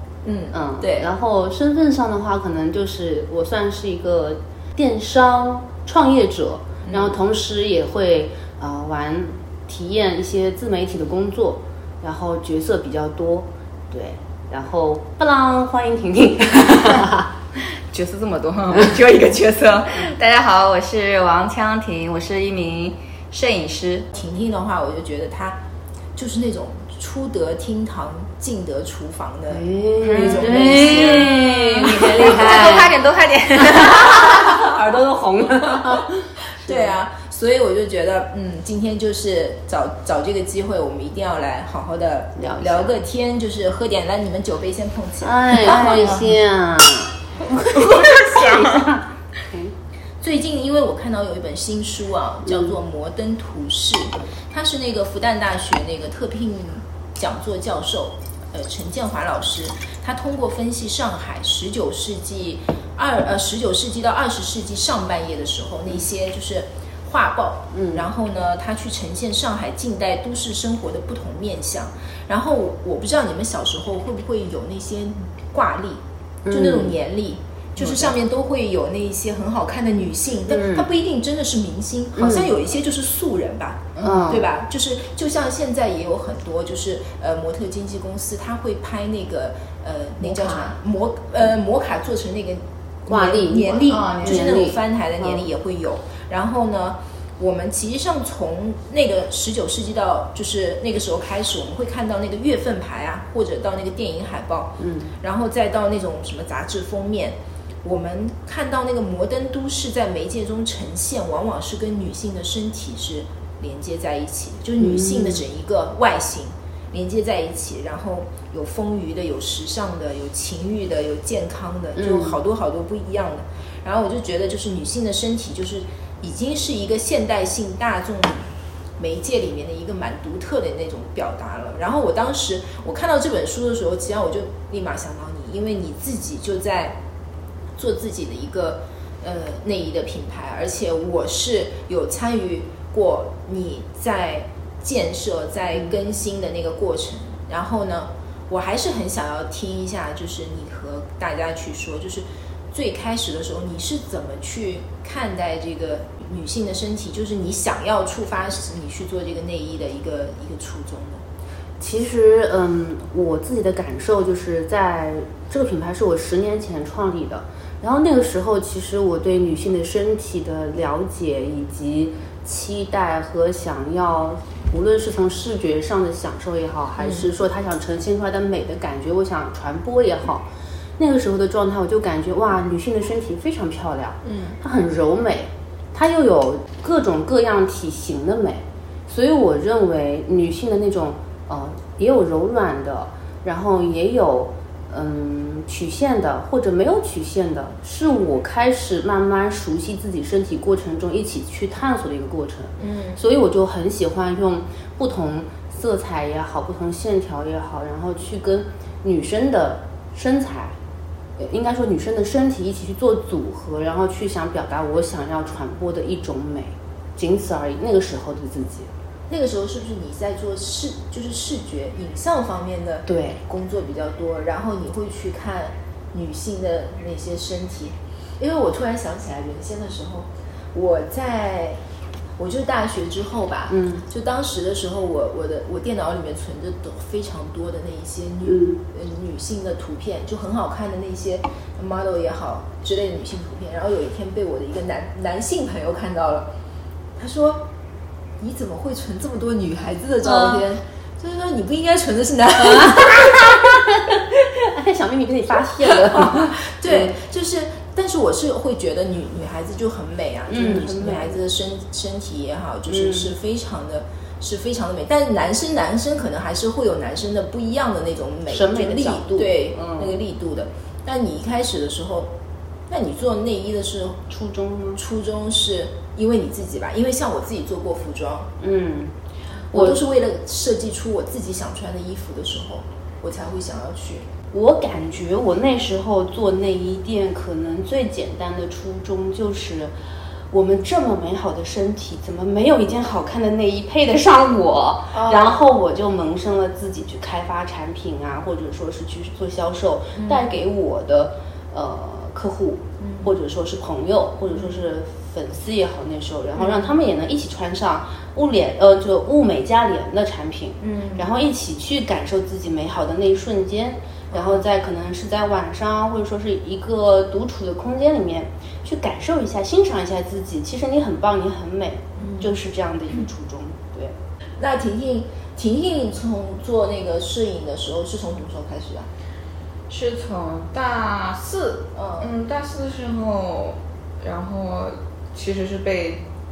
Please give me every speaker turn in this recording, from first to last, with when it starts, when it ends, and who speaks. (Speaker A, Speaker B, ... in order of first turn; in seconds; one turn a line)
Speaker A: 0.2-1.1
Speaker B: 0.5-17.3
Speaker C: 17.9-24.1
Speaker A: 24.1-25.6
Speaker A: 26.1-31.4
Speaker B: 29.5-33.0
Speaker C: 30.0-34.7
Speaker A: 32.0-32.3
Speaker B: 33.5-37.0
Speaker A: 36.6-46.3
Speaker B: 42.4-42.9
Speaker B: 45.2-49.7
Speaker C: 45.7-46.1
Speaker C: 47.7-48.9
Speaker A: 50.2-128.5
Speaker B: 67.7-68.1
Speaker B: 76.4-77.0
Speaker B: 80.5-80.8
Speaker B: 82.2-82.5
Speaker C: 84.0-84.2
Speaker B: 84.0-84.5
Speaker C: 90.3-90.7
Speaker B: 93.1-95.5
Speaker C: 93.8-94.7
Speaker B: 104.8-105.1
Speaker B: 114.8-115.4
Speaker B: 122.0-122.4
Speaker A: 129.0-137.0
Speaker A: 137.8-161.2
Speaker B: 161.8-180.5
Speaker A: 177.0-177.2
Speaker B: 181.0-210.7
Speaker C: 184.3-184.5
Speaker A: 202.8-203.2
Speaker B: 211.4-218.9
Speaker A: 219.3-231.8
Speaker B: 223.1-223.4
Speaker A: 232.4-246.5
Speaker B: 233.7-234.0
Speaker B: 238.4-238.8
Speaker A: 247.2-247.7
Speaker A: 248.4-253.6
Speaker B: 250.2-250.7
Speaker B: 252.6-257.1
Speaker A: 255.8-272.3
Speaker B: 260.5-261.4
Speaker B: 262.9-263.3
Speaker B: 268.5-270.2
Speaker A: 272.9-274.2
Speaker B: 274.3-275.0
Speaker A: 275.0-278.5
Speaker B: 278.6-279.1
Speaker B: 279.7-280.0
Speaker A: 279.7-284.3
Speaker B: 284.5-289.9
Speaker B: 290.5-324.1
Speaker A: 295.1-295.6
Speaker A: 300.1-300.4
Speaker A: 303.0-303.3
Speaker A: 306.6-306.9
Speaker A: 310.8-311.3
Speaker A: 314.3-314.6
Speaker A: 322.2-322.5
Speaker A: 324.6-329.1
Speaker C: 329.9-336.2
Speaker A: 331.9-332.3